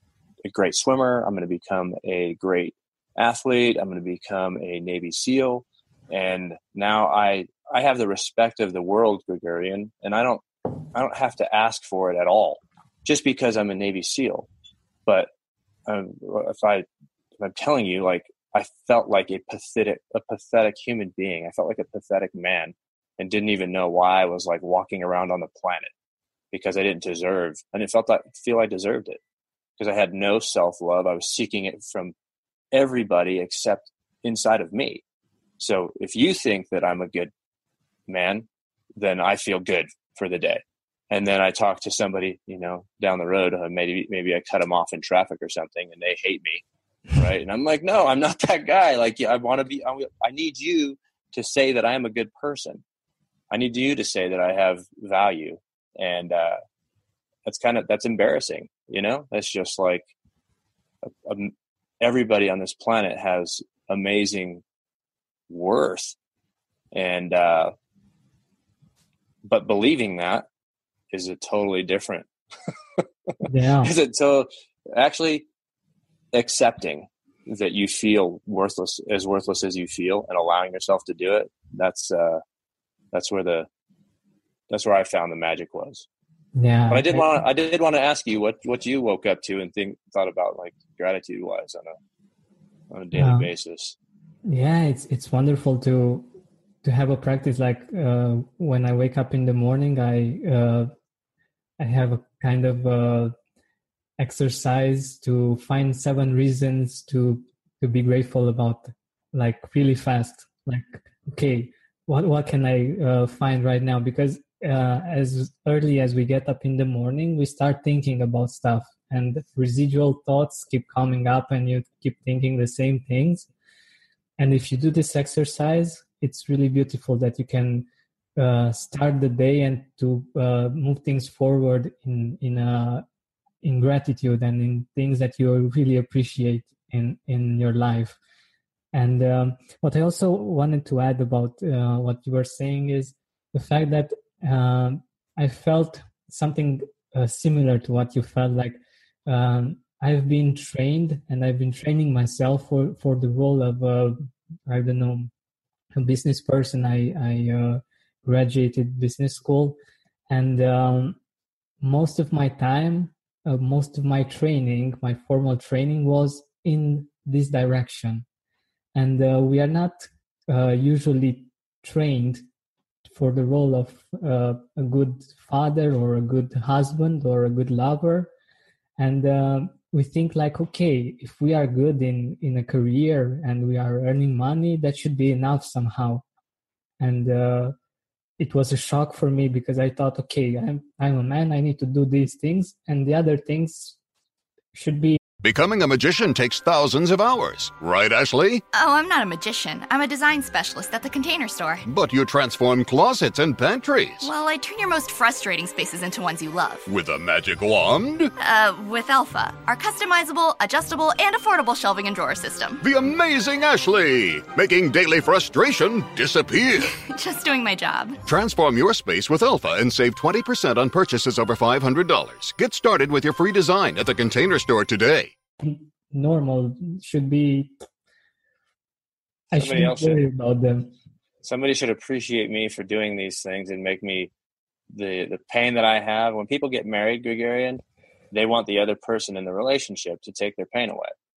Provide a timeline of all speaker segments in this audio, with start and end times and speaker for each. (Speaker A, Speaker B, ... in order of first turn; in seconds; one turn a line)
Speaker A: 0.4-14.5
Speaker A: 15.8-16.9
Speaker A: 17.4-25.9
Speaker A: 26.5-29.2
Speaker A: 29.8-32.1
Speaker A: 32.7-35.0
Speaker A: 35.6-37.3
Speaker A: 38.1-46.6
Speaker A: 47.1-52.8
Speaker A: 53.5-56.6
Speaker A: 57.5-60.1
Speaker A: 61.0-64.6
Speaker A: 65.5-66.2
Speaker A: 66.9-67.7
Speaker A: 69.4-70.5
Speaker A: 71.1-72.3
Speaker A: 73.0-75.4
Speaker B: 73.4-73.9
Speaker A: 76.3-82.4
Speaker A: 83.1-83.7
Speaker A: 84.7-86.0
Speaker B: 86.5-87.4
Speaker A: 86.9-92.0
Speaker A: 92.9-94.0
Speaker B: 93.2-93.5
Speaker B: 94.5-96.3
Speaker B: 96.8-100.9
Speaker B: 101.8-103.3
Speaker B: 104.2-123.5
Speaker B: 124.4-133.0
Speaker B: 133.6-138.2
Speaker B: 138.9-155.3
Speaker B: 155.9-159.8
Speaker B: 160.3-161.2
Speaker B: 161.8-168.2
Speaker B: 168.9-172.4
Speaker B: 173.1-178.3
Speaker B: 179.0-186.2
Speaker B: 187.0-187.7
Speaker B: 188.4-194.0
Speaker B: 194.7-195.2
Speaker C: 195.4-198.6
Speaker D: 198.7-201.8
Speaker C: 201.9-204.3
Speaker D: 204.2-206.9
Speaker C: 206.8-208.3
Speaker D: 208.4-212.8
Speaker C: 212.8-216.9
Speaker D: 216.8-218.2
Speaker C: 218.2-225.3
Speaker B: 225.6-227.8
Speaker B: 229.5-230.9
Speaker A: 229.6-230.2
Speaker A: 231.4-234.3
Speaker A: 234.9-241.1